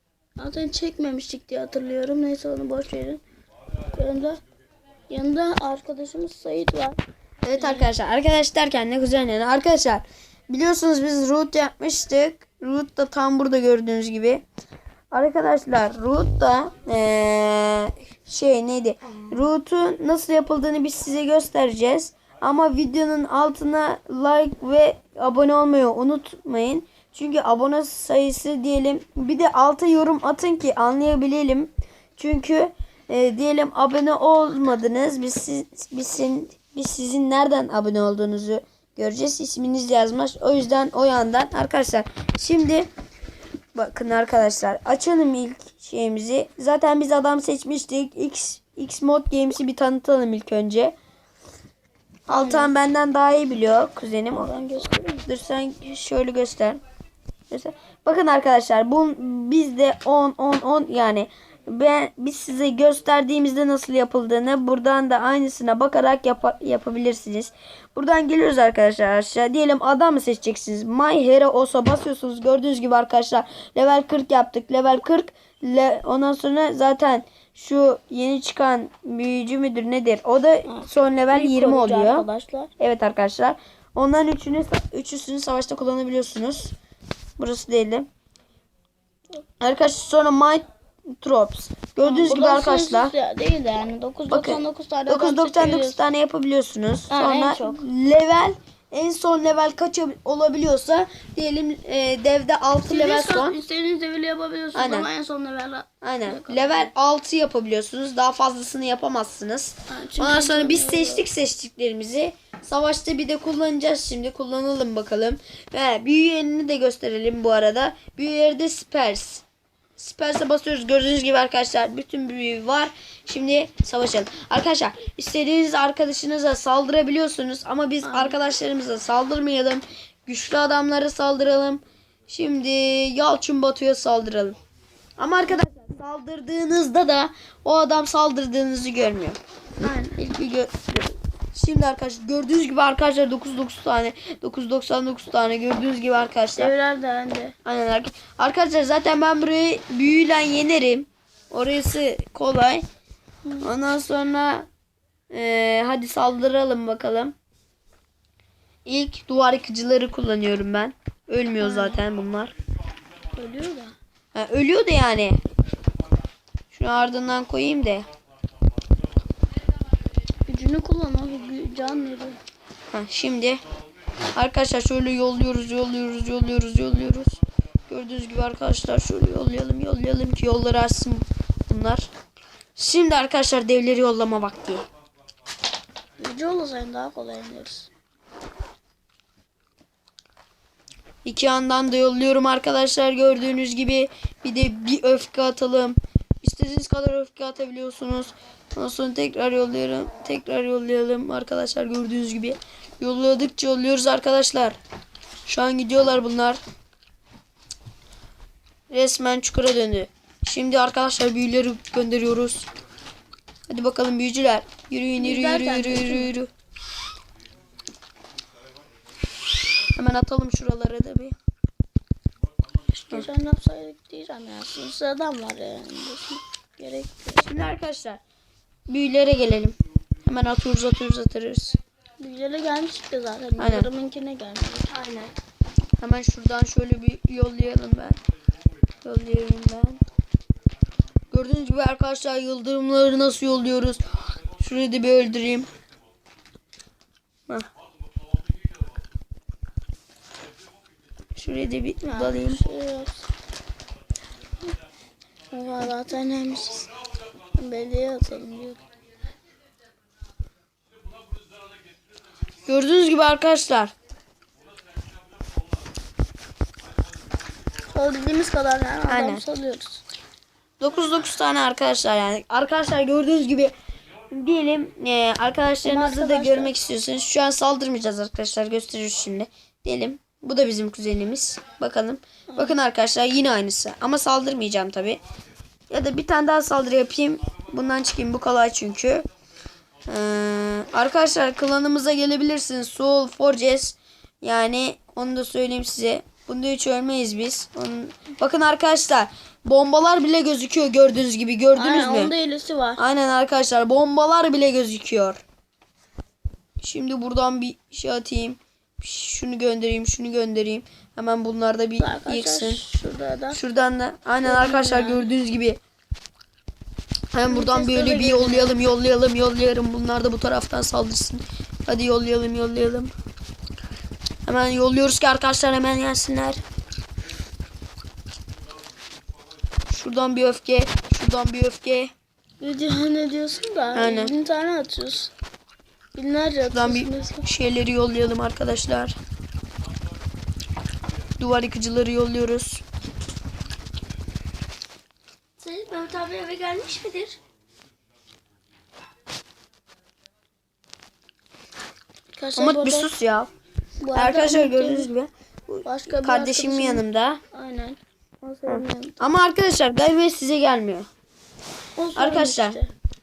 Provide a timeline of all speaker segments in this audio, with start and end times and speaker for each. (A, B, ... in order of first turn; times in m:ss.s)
0:00.4-0:03.2 A
0:03.9-0:04.4 A
0:05.1-0:07.0 A
0:07.4-0:14.4 B
0:07.5-0:07.9 A
0:15.1-0:42.9 B
0:43.7-0:50.9 B
0:52.3-0:54.5 B
0:52.3-0:52.7 A
0:54.3-0:55.2 A
0:55.2-0:56.8 B
0:57.5-1:22.2 B
1:20.7-1:22.7 A
1:22.8-1:26.7 B
1:27.4-1:28.1 B
1:29.6-1:33.1 B
1:32.0-1:36.0 A
1:34.3-1:43.6 B
1:37.1-1:37.8 A
1:42.8-1:46.9 A
1:44.7-1:45.1 B
1:46.0-1:59.4 B
1:49.9-1:51.2 A
2:00.0-2:14.6 B
2:08.0-2:08.4 A
2:15.2-2:19.4 B
2:19.8-2:20.2 A
2:20.1-2:26.7 B
2:26.6-2:27.5 A
2:27.6-2:32.8 B
2:33.6-2:34.7 B
2:35.3-2:37.3 B
2:38.8-2:42.5 B
2:41.6-2:42.0 A
2:43.3-2:43.9 A
2:44.3-2:45.4 B
2:46.7-2:48.1 B
2:50.5-2:52.4 A
2:52.9-2:53.6 B
2:54.3-3:02.1 B
3:02.8-3:04.8 B
3:06.2-3:07.9 A
3:11.2-3:24.8 B
3:25.4-3:26.6 B
3:28.9-3:32.6 B
3:33.7-3:36.5 B
3:35.2-3:36.3 A
3:40.0-3:41.4 B
3:43.0-3:47.6 A
3:47.4-3:48.2 B
3:48.9-3:51.8 B
3:52.2-3:55.3 A
3:53.6-3:53.9 B
3:56.0-3:58.2 B
3:59.0-4:00.0 B
4:01.3-4:05.7 B
4:11.4-4:12.6 B
4:12.0-4:13.3 A
4:15.5-4:16.9 A
4:17.5-4:18.8 A
4:22.6-4:23.9 B
4:27.9-4:30.0 A
4:29.1-4:29.4 B
4:30.8-4:33.7 B
4:34.3-4:45.2 B
4:35.8-4:36.7 A
4:42.5-4:42.8 A
4:45.9-4:49.2 B
4:50.1-5:02.3 B
5:01.8-5:03.0 A
5:03.0-5:05.4 B
5:06.8-5:12.8 B
5:12.0-5:13.6 A
5:13.5-5:15.8 B
5:14.4-5:15.2 A
5:17.3-5:23.1 B
5:17.5-5:18.7 A
5:24.4-5:26.6 B
5:29.9-5:32.1 B
5:32.6-5:35.3 A
5:33.9-5:34.3 B
5:36.1-5:37.4 A
5:36.7-5:39.2 B
5:41.4-5:42.8 B
5:45.6-5:47.4 A
5:52.4-5:53.1 A
5:52.5-5:53.5 B
5:54.0-5:55.1 A
5:54.1-5:57.4 B
5:55.8-5:59.2 A
5:58.7-6:01.1 B
6:02.0-6:02.9 A
6:02.2-6:02.8 B